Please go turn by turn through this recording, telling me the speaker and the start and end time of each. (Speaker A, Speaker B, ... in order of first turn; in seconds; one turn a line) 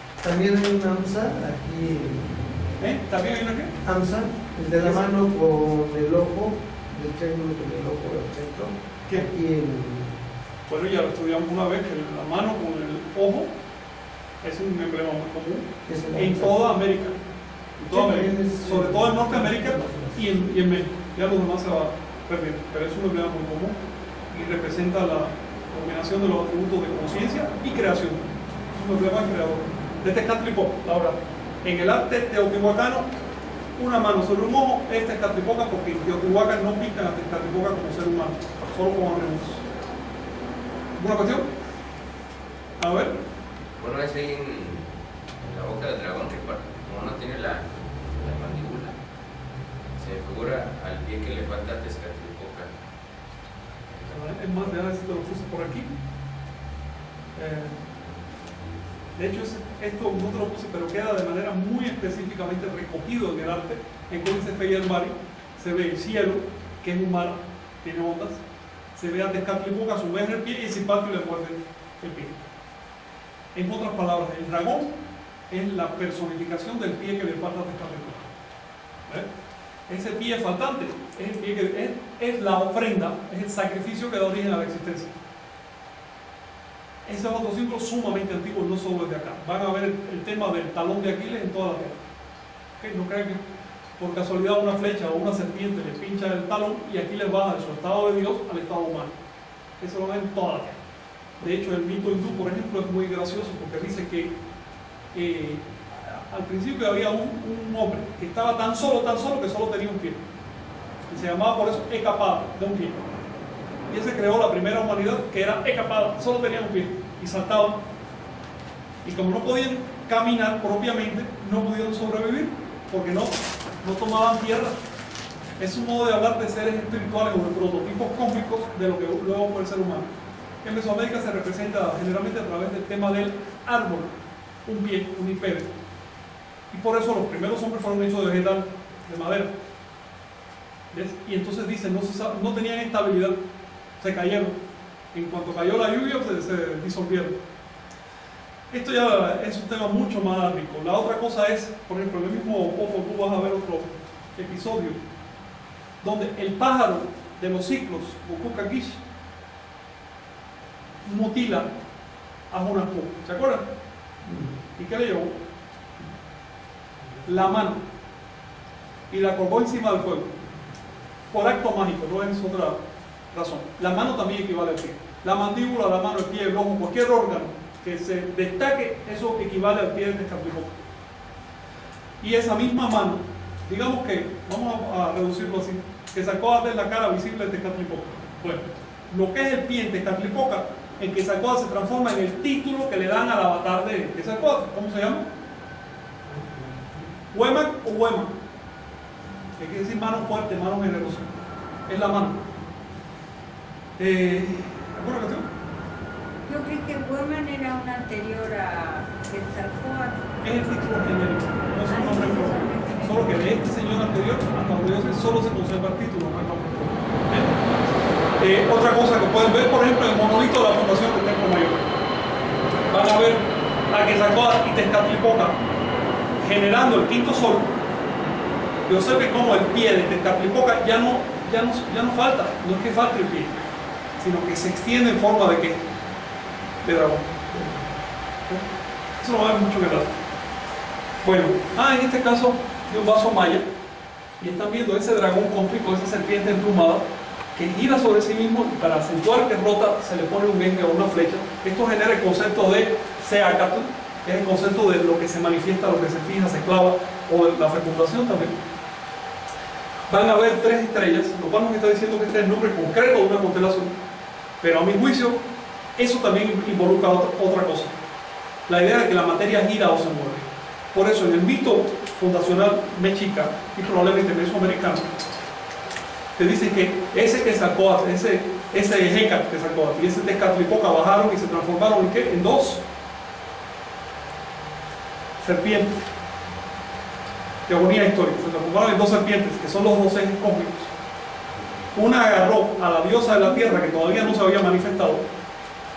Speaker A: 0.2-2.5
Speaker B: 2.8-3.7
Speaker A: 3.8-10.3
Speaker B: 4.8-5.1
Speaker B: 10.7-13.5
Speaker B: 14.4-17.2
Speaker A: 15.8-16.6
Speaker B: 17.8-23.8
Speaker A: 17.9-20.4
Speaker B: 24.3-33.1
Speaker B: 33.8-39.6
Speaker B: 41.0-41.5
Speaker B: 42.8-43.1
Speaker C: 43.8-49.0
Speaker C: 50.0-52.7
Speaker C: 53.8-54.1
Speaker B: 54.1-55.9
Speaker B: 57.3-57.8
Speaker B: 59.1-68.4
Speaker B: 69.0-72.4
Speaker B: 73.5-74.9
Speaker B: 75.5-78.2
Speaker B: 79.9-85.1
Speaker B: 87.0-92.0
Speaker B: 92.8-93.4
Speaker B: 94.0-99.1
Speaker B: 99.8-100.8
Speaker B: 101.4-104.4
Speaker B: 105.1-110.2
Speaker B: 111.1-113.0
Speaker B: 113.9-117.8
Speaker B: 119.0-124.8
Speaker B: 125.6-130.1
Speaker B: 130.6-134.1
Speaker B: 134.7-135.7
Speaker B: 136.7-139.5
Speaker B: 140.9-143.4
Speaker B: 144.0-144.6
Speaker B: 145.1-147.4
Speaker B: 148.7-155.0
Speaker B: 156.0-159.0
Speaker B: 161.0-161.7
Speaker B: 162.5-163.6
Speaker B: 164.4-165.3
Speaker B: 167.2-167.8
Speaker B: 169.1-170.3
Speaker B: 171.3-172.8
Speaker B: 173.3-180.7
Speaker B: 182.2-195.3
Speaker B: 197.3-198.3
Speaker B: 199.6-201.3
Speaker B: 201.9-202.4
Speaker B: 204.0-205.5
Speaker D: 206.4-210.2
Speaker B: 210.4-217.7
Speaker D: 211.9-213.3
Speaker B: 218.4-221.8
Speaker B: 222.9-225.6
Speaker B: 226.4-227.7
Speaker B: 228.9-233.6
Speaker B: 234.2-235.9
Speaker B: 236.8-237.4
Speaker A: 237.5-237.8
Speaker B: 239.2-240.1
Speaker B: 241.2-243.7
Speaker B: 244.4-247.0
Speaker B: 247.5-258.6
Speaker B: 260.1-263.9
Speaker B: 264.6-265.4
Speaker B: 266.0-267.9
Speaker B: 268.7-275.1
Speaker B: 276.4-282.8
Speaker B: 285.4-286.1
Speaker B: 287.7-290.9
Speaker B: 291.9-295.2
Speaker D: 293.4-294.2